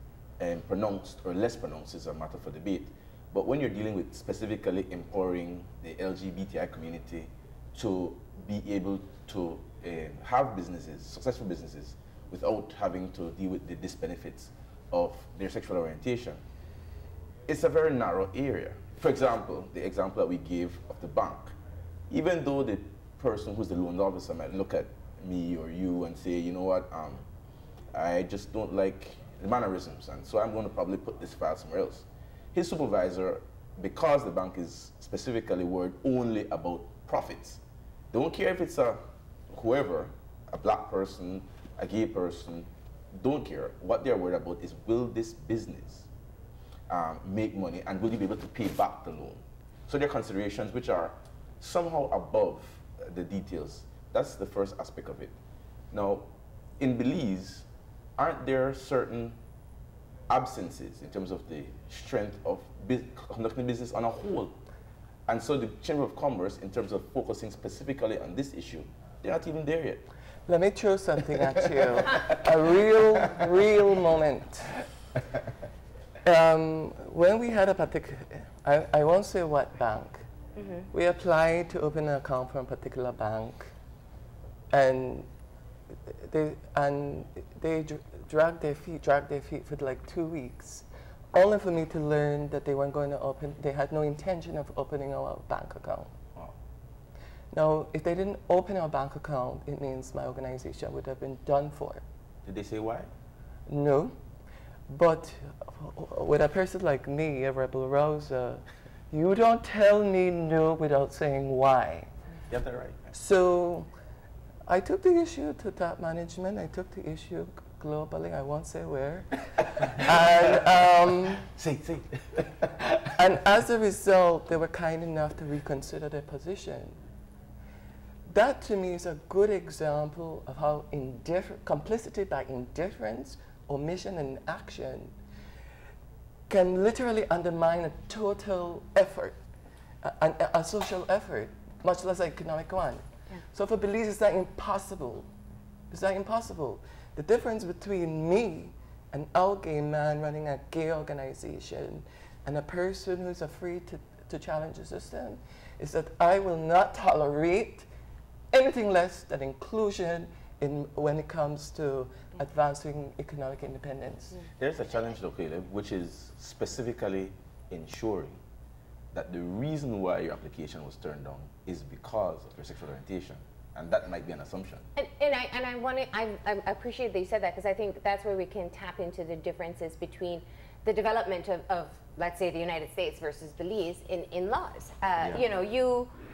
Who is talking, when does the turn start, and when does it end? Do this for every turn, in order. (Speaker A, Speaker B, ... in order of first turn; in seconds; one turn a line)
Speaker A: 0.4-16.4
Speaker A: 17.5-21.5
Speaker A: 22.1-27.2
Speaker A: 27.9-37.6
Speaker A: 38.1-46.1
Speaker A: 46.9-55.3
Speaker A: 55.9-59.4
Speaker A: 60.3-64.5
Speaker A: 65.3-70.0
Speaker B: 70.5-74.8
Speaker B: 76.2-80.3
Speaker C: 80.5-80.9
Speaker B: 80.9-83.7
Speaker B: 84.7-85.3
Speaker B: 86.0-96.1
Speaker B: 97.5-102.0
Speaker A: 102.4-103.1
Speaker B: 103.7-104.1
Speaker B: 104.9-112.1
Speaker A: 112.5-113.1
Speaker B: 113.1-113.9
Speaker B: 114.7-121.5
Speaker A: 121.4-122.9
Speaker B: 123.0-127.0
Speaker B: 128.3-135.2
Speaker B: 136.5-139.4
Speaker B: 140.0-145.3
Speaker B: 145.9-157.9
Speaker B: 158.5-164.4
Speaker C: 164.3-165.0
Speaker A: 164.6-168.4
Speaker A: 169.1-174.9
Speaker C: 174.9-186.1
Speaker A: 185.2-185.4